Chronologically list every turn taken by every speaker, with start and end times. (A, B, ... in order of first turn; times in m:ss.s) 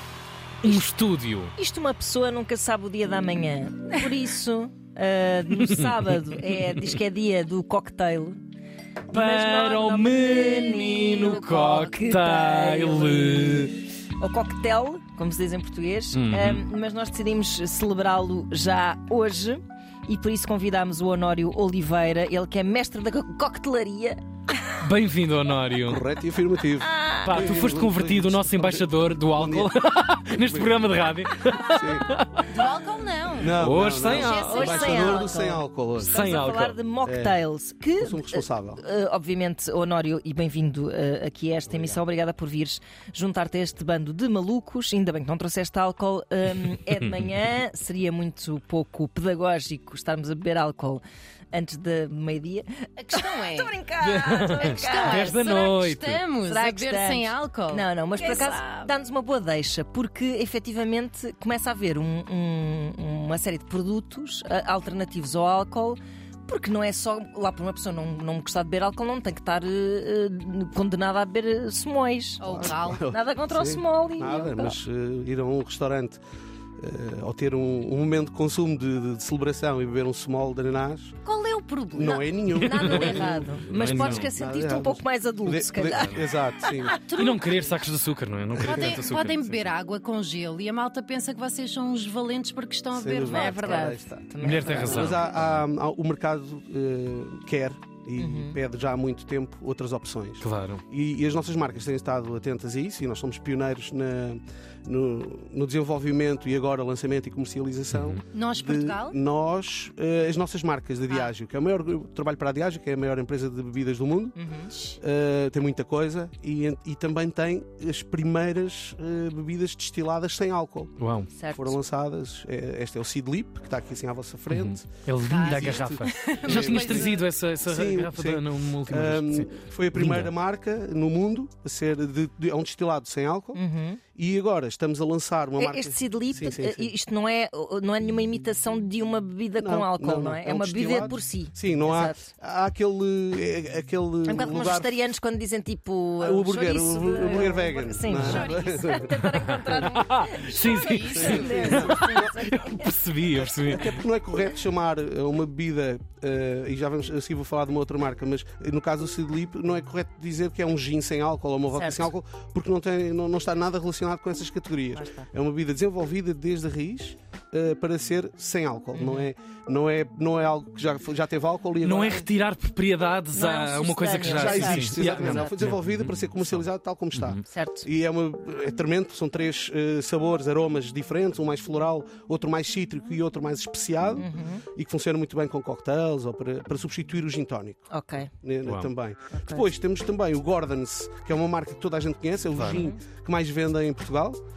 0:00.6-0:01.5 A
0:01.6-0:08.4 B
0:05.6-0:06.2 A
0:09.1-0:13.7 A
0:09.1-0:24.2 B
0:16.1-0:16.6 A
0:24.8-0:26.0 A
0:25.8-0:29.7 C
0:26.8-0:27.5 B
0:27.2-0:32.6 A
0:30.3-0:30.8 C
0:31.6-0:32.1 C
0:32.5-0:35.2 D
0:33.4-0:36.2 C
0:33.5-0:34.9 A
0:34.2-0:55.5 B
0:36.0-0:36.8 A
0:37.0-0:37.4 C
0:38.0-0:38.8 C
0:41.7-0:42.0 C
0:53.0-0:53.7 D
0:54.0-0:56.2 A
0:54.5-0:58.9 D
0:56.4-1:14.8 B
1:12.4-1:13.0 D
1:12.4-1:16.2 C
1:16.8-1:21.2 C
1:21.2-1:22.3 D
1:21.9-1:27.0 C
1:22.5-1:27.0 B
1:22.6-1:24.3 A
1:26.0-1:26.2 A
1:27.0-1:27.8 D
1:27.1-1:29.7 A
1:28.5-1:29.0 C
1:28.6-1:34.0 D
1:32.9-1:54.3 C
1:33.2-1:35.3 B
1:34.4-1:35.5 A
1:38.2-1:38.6 B
1:40.4-1:40.8 A
1:47.9-1:48.2 A
1:48.3-1:49.2 D
1:54.3-1:54.7 B
1:54.7-1:55.0 D
1:55.0-2:00.9 C
2:01.0-2:01.3 A
2:01.3-2:01.8 B
2:01.5-2:07.1 C
2:04.5-2:10.3 A
2:05.2-2:07.2 D
2:07.6-2:13.6 C
2:13.5-2:14.0 B
2:14.1-2:16.9 C
2:15.6-2:22.2 B
2:19.6-2:25.0 C
2:24.2-2:32.9 B
2:26.2-2:29.2 C
2:28.2-2:28.6 D
2:29.5-2:34.0 A
2:30.6-2:32.2 D
2:31.1-2:32.3 C
2:33.6-2:52.3 C
2:41.7-2:42.1 B
2:44.9-2:45.3 B
2:48.9-2:49.2 B
2:51.8-2:57.4 A
2:53.3-2:55.5 B
2:54.2-3:14.4 C
2:57.5-2:57.9 B
3:04.2-3:04.6 B
3:07.9-3:08.3 B
3:08.6-3:08.9 A
3:09.3-3:09.7 B
3:12.6-3:12.8 A
3:12.6-3:13.0 B